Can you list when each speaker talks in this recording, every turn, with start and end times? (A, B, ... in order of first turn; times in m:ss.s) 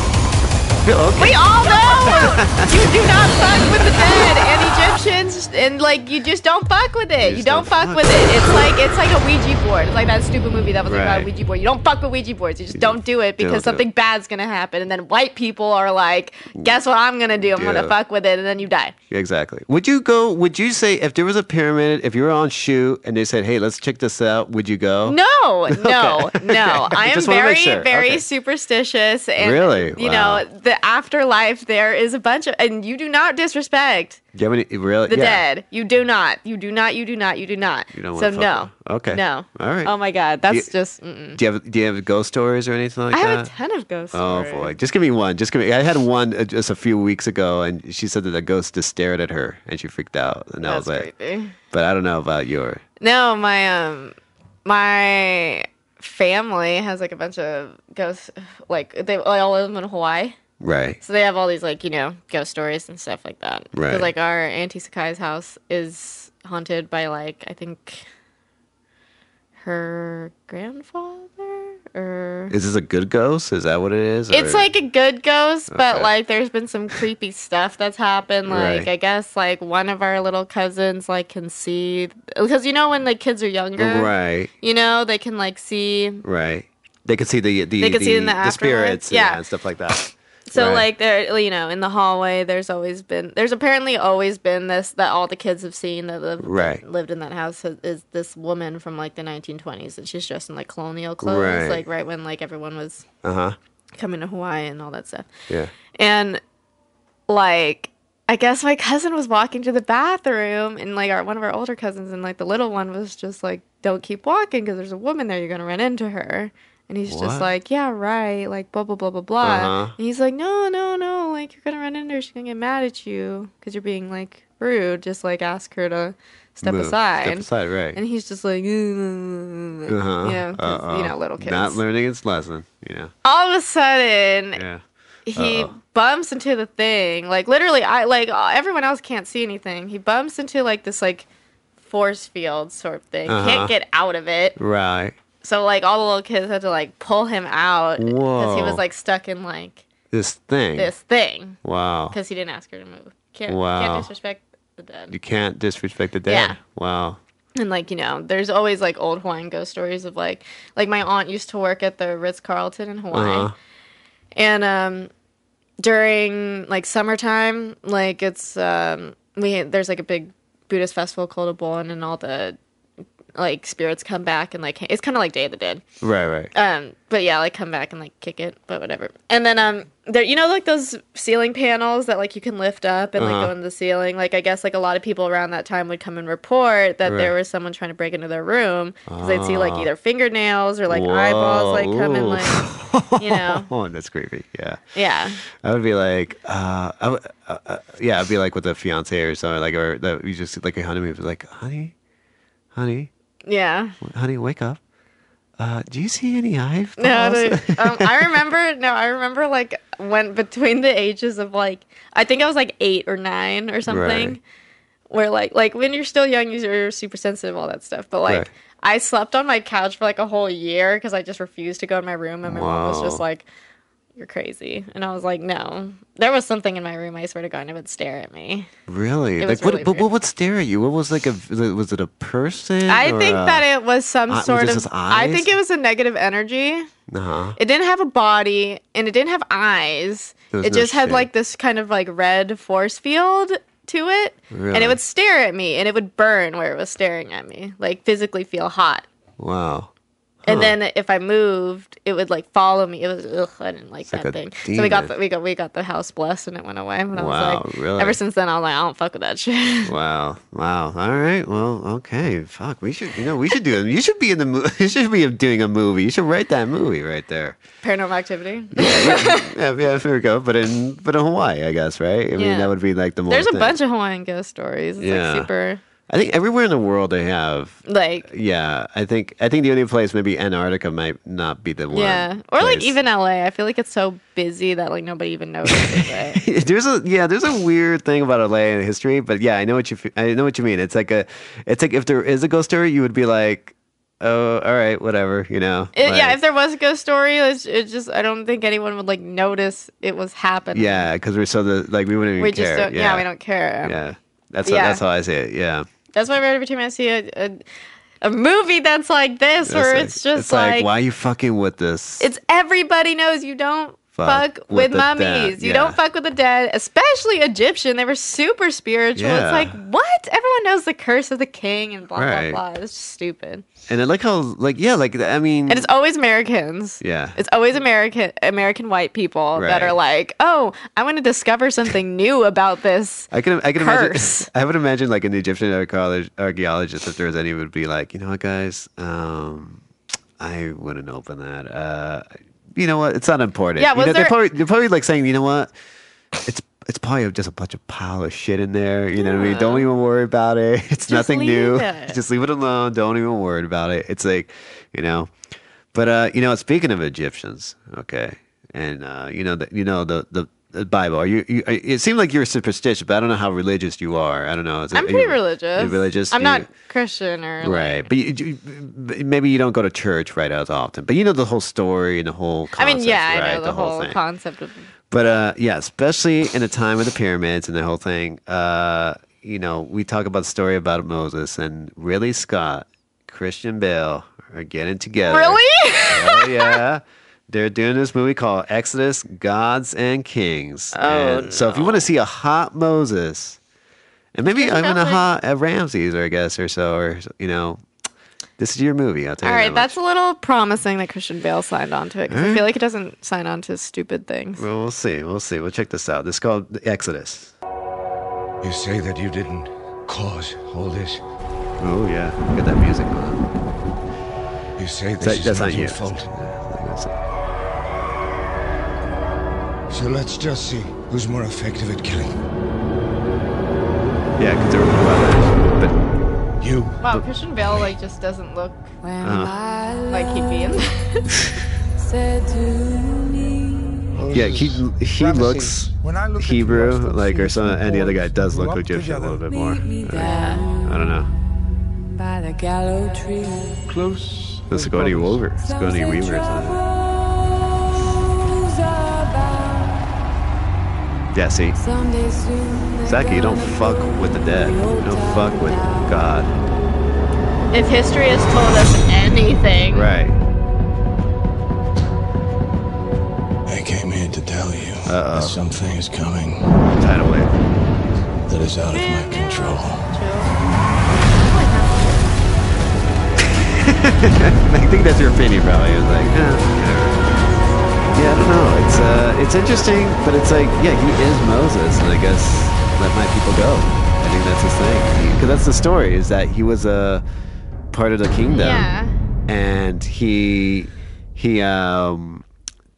0:00.8-0:02.9 A
0:01.2-0:19.0 B
0:07.2-0:08.7 A
0:10.9-0:11.3 A
0:12.7-0:13.9 A
0:17.4-0:18.0 A
0:19.1-0:25.2 A
0:25.1-0:34.2 B
0:25.7-0:28.2 A
0:29.4-0:30.5 A
0:34.3-0:35.4 A
0:35.1-0:41.4 B
0:37.9-0:39.9 A
0:40.5-0:40.7 A
0:41.4-0:43.5 A
0:43.1-0:44.7 B
0:44.1-0:51.1 A
0:50.6-0:51.6 B
0:51.7-0:52.8 A
0:53.0-1:00.4 B
1:00.6-1:01.0 A
1:01.0-1:08.0 B
1:03.7-1:04.1 A
1:09.6-1:12.5 B
1:12.5-1:14.7 A
1:14.3-1:26.2 B
1:15.7-1:16.1 A
1:18.5-1:18.9 A
1:23.8-1:24.5 A
1:26.2-1:30.9 A
1:27.8-1:29.4 B
1:30.5-1:43.1 B
1:36.4-1:36.8 A
1:41.2-1:41.8 A
1:43.2-1:43.6 A
1:44.0-1:45.3 B
1:46.0-1:46.4 B
1:47.3-2:11.8 B
1:57.1-1:57.5 A
1:59.4-2:00.0 A
2:06.6-2:08.0 A
2:09.9-2:13.1 A
2:13.2-2:14.6 B
2:14.6-2:14.8 A
2:15.3-2:21.3 B
2:15.4-2:15.8 A
2:21.8-2:24.6 B
2:23.3-2:23.7 A
2:24.6-2:25.2 A
2:25.4-2:29.8 B
2:28.0-2:28.8 A
2:30.1-2:30.9 A
2:30.8-2:31.6 B
2:31.6-2:32.2 A
2:32.1-2:35.2 B
2:33.5-2:34.1 A
2:35.1-2:37.2 A
2:36.3-2:36.6 B
2:37.6-2:43.5 B
2:43.1-2:43.6 A
2:44.4-2:45.1 B
2:45.8-2:52.6 B
2:53.4-2:55.8 B
2:56.0-2:56.5 A
2:56.5-3:13.7 B
3:03.2-3:03.5 A
3:07.0-3:07.3 A
3:09.1-3:09.9 A
3:10.9-3:14.8 A
3:15.0-3:15.4 B
3:15.4-3:22.0 A
3:22.8-3:23.1 A
3:23.5-3:24.0 B
3:24.0-3:24.8 A
3:25.6-3:28.4 A
3:27.0-3:34.4 B
3:33.9-3:34.4 A
3:35.1-3:43.5 B
3:42.4-3:43.2 A
3:44.2-3:48.7 B
3:48.9-3:53.7 A
3:49.4-3:50.1 B
3:52.9-3:56.9 B
3:54.3-3:55.5 A
3:57.1-3:57.6 A
3:57.6-4:09.1 B
4:00.5-4:01.3 A
4:04.5-4:05.0 A
4:09.4-4:09.9 A
4:10.4-4:10.8 A
4:10.5-4:19.9 B
4:14.1-4:15.1 A
4:17.1-4:18.2 A
4:19.8-4:27.6 A
4:27.8-4:29.5 B
4:28.8-4:33.8 A
4:32.4-4:32.8 B
4:33.3-4:35.8 B
4:35.0-4:35.5 A
4:36.1-4:43.0 A
4:37.9-4:38.3 B
4:41.9-4:46.4 B
4:45.7-4:56.4 A
4:56.0-5:01.1 B
5:00.7-5:03.3 A
5:02.4-5:04.0 B
5:03.8-5:05.9 A
5:04.6-5:05.0 B
5:06.2-5:07.6 B
5:08.2-5:10.9 B
5:09.6-5:12.3 A
5:12.2-5:23.6 B
5:14.2-5:16.0 A
5:19.2-5:19.8 A
5:22.2-5:22.6 A
5:23.9-5:25.9 A
5:25.7-5:34.5 B
5:27.0-5:27.4 A
5:29.6-5:30.0 A
5:33.3-5:39.8 A
5:40.4-5:45.7 A
5:43.8-5:44.4 B
5:46.4-5:55.3 A
5:49.2-5:49.9 B
5:51.1-5:52.2 B
5:55.9-6:06.7 A
6:04.9-6:08.1 B
6:07.6-6:14.2 A
6:12.8-6:14.9 B
6:15.1-6:33.6 A
6:25.2-6:26.8 B
6:30.9-6:32.1 B
6:34.3-6:37.8 A
6:34.5-6:35.2 B
6:38.6-6:40.0 A
6:39.4-6:44.6 B
6:42.3-6:42.7 A
6:44.6-6:47.5 A
6:48.6-6:51.2 C
6:51.8-6:53.5 A
6:54.8-6:56.3 C
6:55.2-6:57.1 A
6:59.9-7:02.3 C
7:04.4-7:06.0 A
7:06.6-7:07.0 C
7:07.0-7:09.0 B
7:09.0-7:10.8 D
7:09.2-7:09.6 A
7:10.1-7:11.3 B
7:12.0-7:14.0 D
7:14.2-7:19.8 C
7:14.3-7:21.3 A
7:19.8-7:20.9 D
7:20.2-7:20.7 B
7:22.1-7:23.9 D
7:23.9-7:25.6 C
7:24.7-7:26.8 A
7:25.8-7:26.9 D
7:28.6-7:30.1 D
7:31.3-7:31.8 A
7:31.8-7:36.2 D
7:33.0-7:36.6 A
7:37.7-7:40.1 B
7:39.9-7:40.4 A
7:43.7-7:46.8 E
7:45.1-7:45.6 A
7:47.0-7:47.5 A
7:48.5-7:50.1 E
7:48.9-7:50.5 B
7:51.3-7:52.4 B
7:53.5-7:57.2 A
7:58.1-8:07.2 A
8:07.9-8:08.9 A
8:08.5-8:09.2 B
8:09.5-8:12.4 A